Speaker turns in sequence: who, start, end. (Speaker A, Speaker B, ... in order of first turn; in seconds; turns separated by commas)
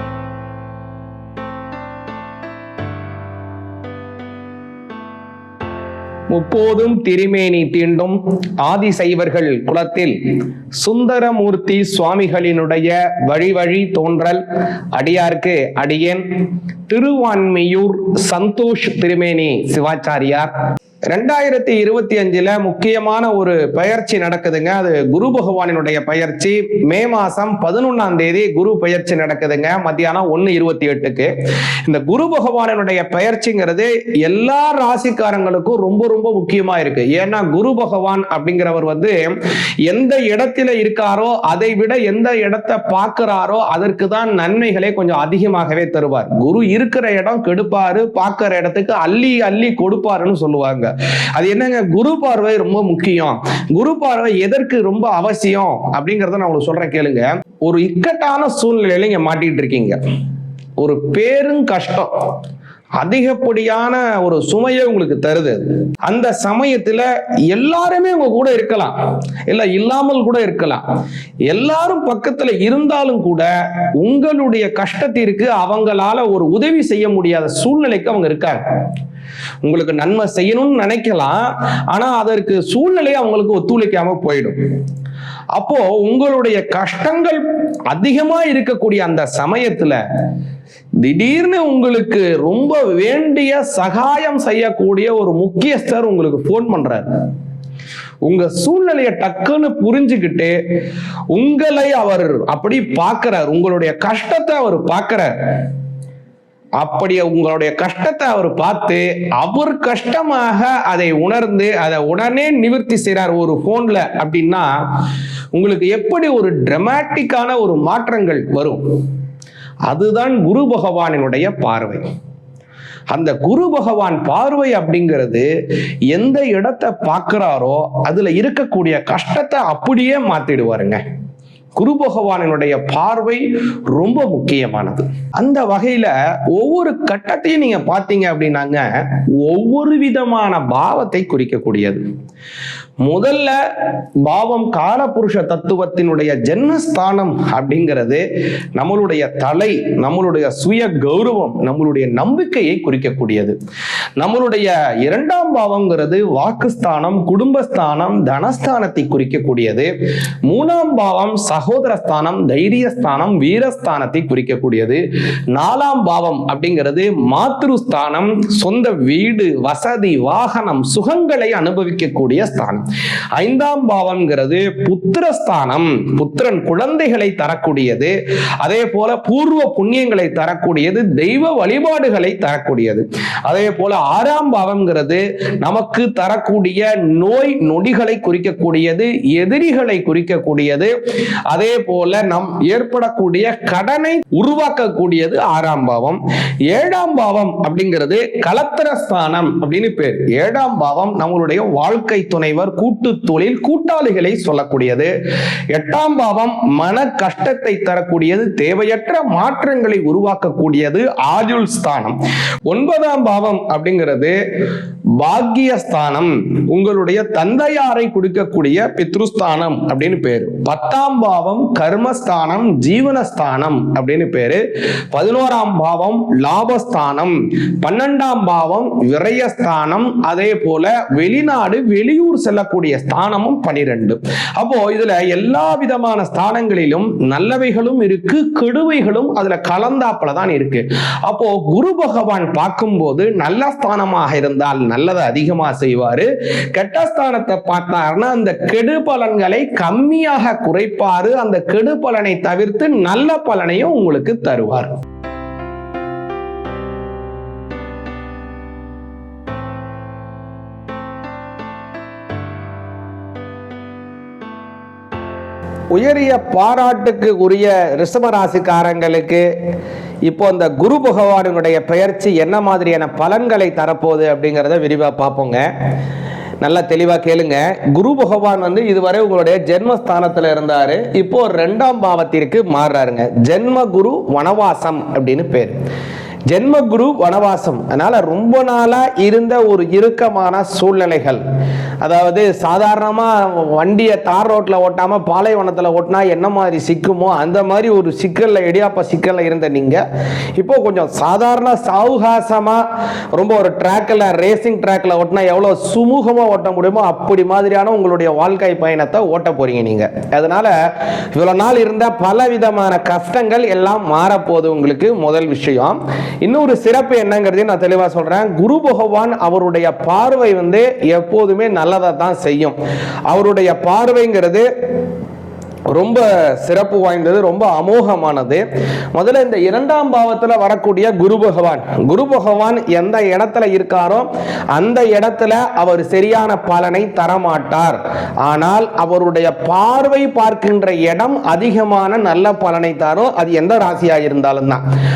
Speaker A: 6.3-10.2, Speaker A: 10.7-14.4, Speaker A: 14.9-16.2, Speaker A: 16.9-20.5, Speaker A: 21.1-31.3, Speaker A: 31.9-39.3, Speaker A: 39.9-60.0, Speaker A: 60.8-62.1, Speaker A: 63.0-68.9, Speaker A: 69.5-70.8, Speaker A: 71.5-78.6, Speaker A: 79.6-84.6, Speaker A: 85.5-90.0, Speaker A: 91.0-97.0, Speaker A: 98.2-100.5, Speaker A: 101.3-105.3, Speaker A: 106.8-114.7, Speaker A: 115.5-118.8, Speaker A: 119.9-122.0, Speaker A: 123.1-125.5, Speaker A: 126.1-131.0, Speaker A: 131.8-142.0, Speaker A: 143.0-143.6, Speaker A: 144.2-148.2, Speaker A: 148.8-153.6, Speaker A: 154.2-159.9, Speaker A: 160.5-165.0, Speaker A: 165.5-172.8, Speaker A: 173.4-190.9, Speaker A: 191.5-205.1, Speaker A: 205.7-212.2, Speaker A: 212.7-214.4, Speaker A: 215.2-224.6, Speaker A: 225.1-255.0, Speaker A: 265.9-269.4, Speaker A: 270.3-275.7, Speaker A: 276.6-285.8, Speaker A: 286.5-291.4, Speaker A: 292.0-300.0, Speaker A: 300.6-310.7, Speaker A: 311.3-322.8, Speaker A: 323.3-324.7, Speaker A: 325.9-344.8